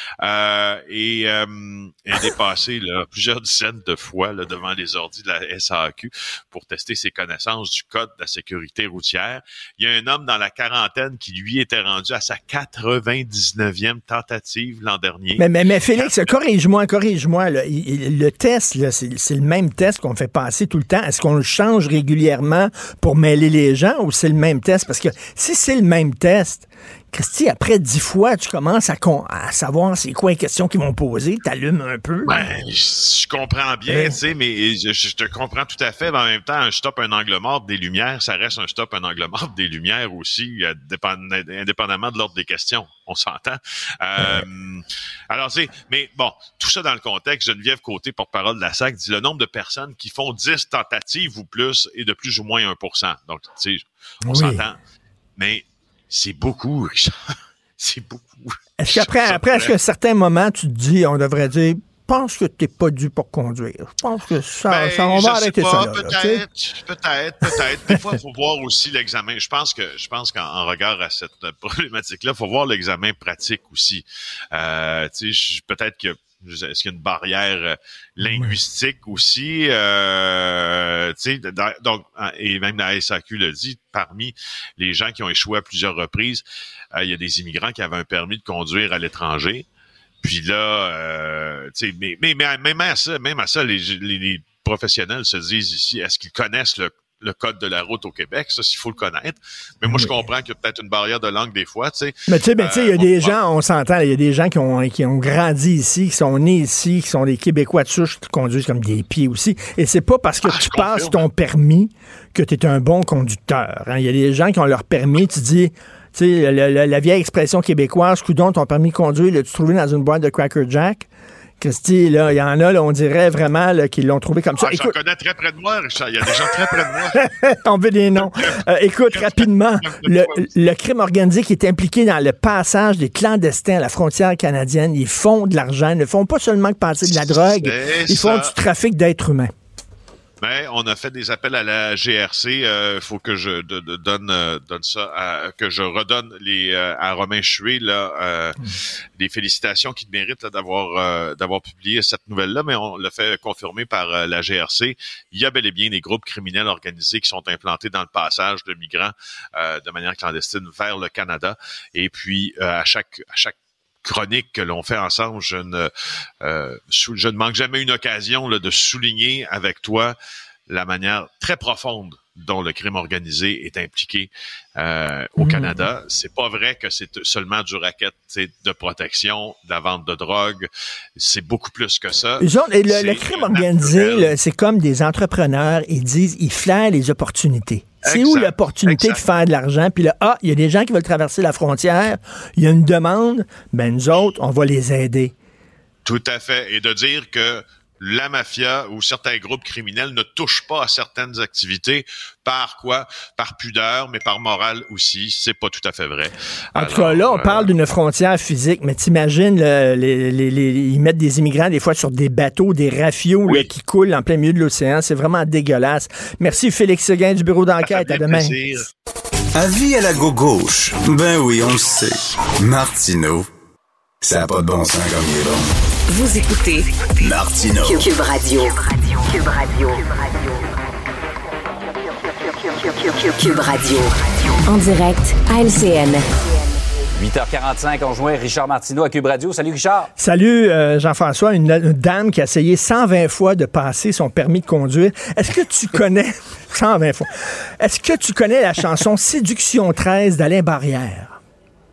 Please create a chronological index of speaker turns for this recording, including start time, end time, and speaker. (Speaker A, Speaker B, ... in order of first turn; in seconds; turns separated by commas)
Speaker A: 0.2-16.2, Speaker B: 15.4-32.5, Speaker A: 32.2-54.8, Speaker B: 33.9-34.2, Speaker B: 54.3-54.6, Speaker A: 55.4-59.7, Speaker B: 58.8-66.4, Speaker A: 64.7-89.7, Speaker B: 78.2-78.6, Speaker A: 90.2-103.4, Speaker B: 99.8-100.1, Speaker B: 102.3-121.1, Speaker A: 110.5-111.2, Speaker B: 121.6-125.0, Speaker A: 124.6-127.3, Speaker B: 127.2-139.5, Speaker A: 128.2-128.6, Speaker A: 129.1-130.4, Speaker A: 137.5-138.5, Speaker A: 140.4-165.9, Speaker A: 166.4-170.2, Speaker A: 170.7-184.3, Speaker B: 175.4-175.9, Speaker B: 182.4-195.3, Speaker A: 188.0-189.2, Speaker A: 196.1-207.7, Speaker B: 206.8-218.6, Speaker A: 217.8-218.9, Speaker C: 219.6-223.5, Speaker C: 224.2-225.7, Speaker D: 226.1-227.0, Speaker C: 227.2-228.1, Speaker D: 227.8-230.6, Speaker D: 232.7-236.3, Speaker E: 237.2-240.1, Speaker B: 240.2-251.4